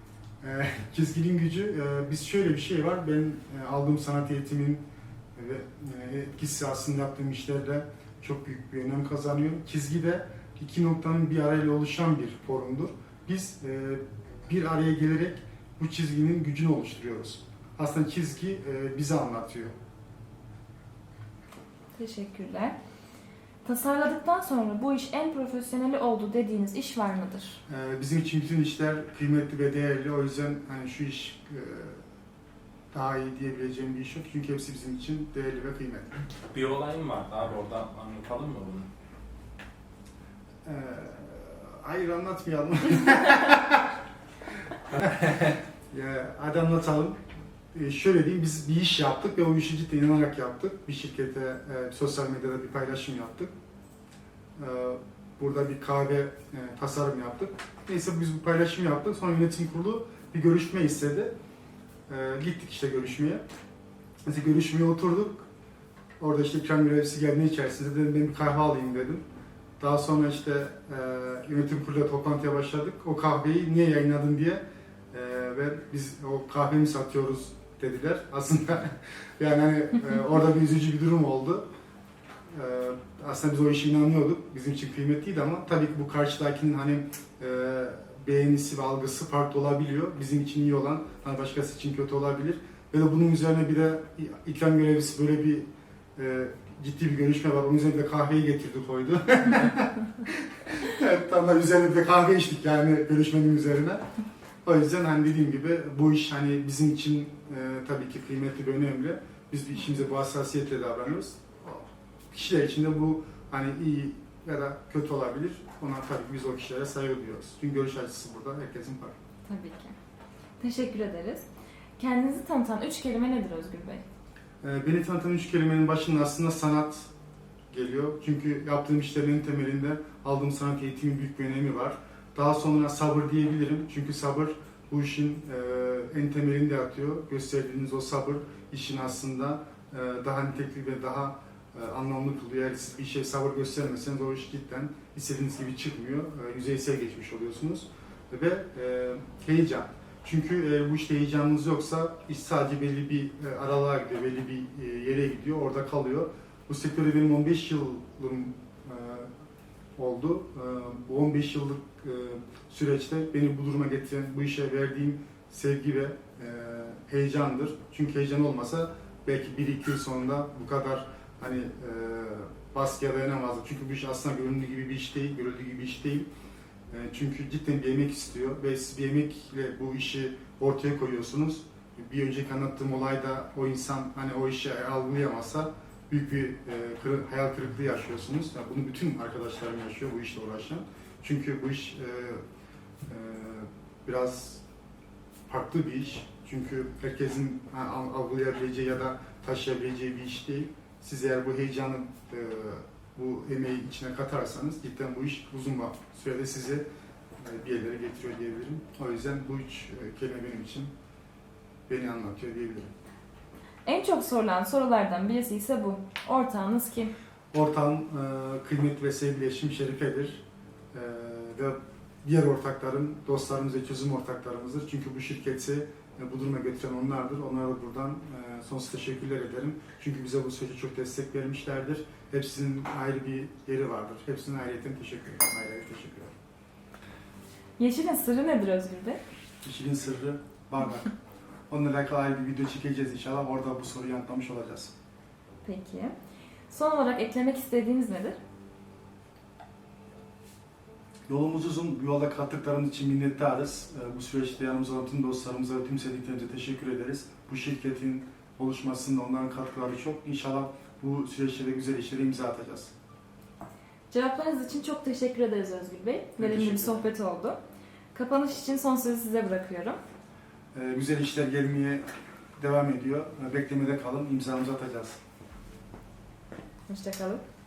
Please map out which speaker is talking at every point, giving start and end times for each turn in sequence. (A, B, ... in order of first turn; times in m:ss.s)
0:00.4-0:04.8 A
0:05.3-0:19.7 A
0:21.9-0:22.7 B
0:23.6-0:27.6 B
0:27.7-0:32.0 A
0:32.9-0:36.1 A
0:36.5-0:38.9 C
0:40.6-0:43.9 A
0:45.9-0:47.2 A
0:47.7-0:53.5 A
0:54.6-1:01.3 A
1:02.1-1:03.4 A
1:04.2-1:05.5 A
1:06.2-1:09.2 A
1:09.8-1:21.6 A
1:22.5-1:44.0 A
1:44.6-1:59.1 A
1:59.4-2:00.0 B
2:00.6-2:04.0 B
2:04.6-2:07.1 A
2:07.7-2:39.3 A
2:40.0-2:56.3 A
2:56.9-3:12.4 A
3:13.1-3:14.6 A
3:15.5-3:26.8 A
3:27.4-3:30.9 A
3:31.9-3:32.9 A
3:33.8-3:37.1 B
3:37.5-3:56.3 A
3:57.8-3:59.2 B
3:59.6-4:01.1 A
4:01.7-4:04.9 A
4:05.6-4:06.1 B
4:06.7-4:08.4 B
4:11.3-4:22.9 A
4:24.1-4:27.6 B
4:26.4-4:27.0 A
4:28.1-4:30.0 B
4:30.7-4:32.0 A
4:32.6-4:35.2 A
4:36.9-4:37.4 B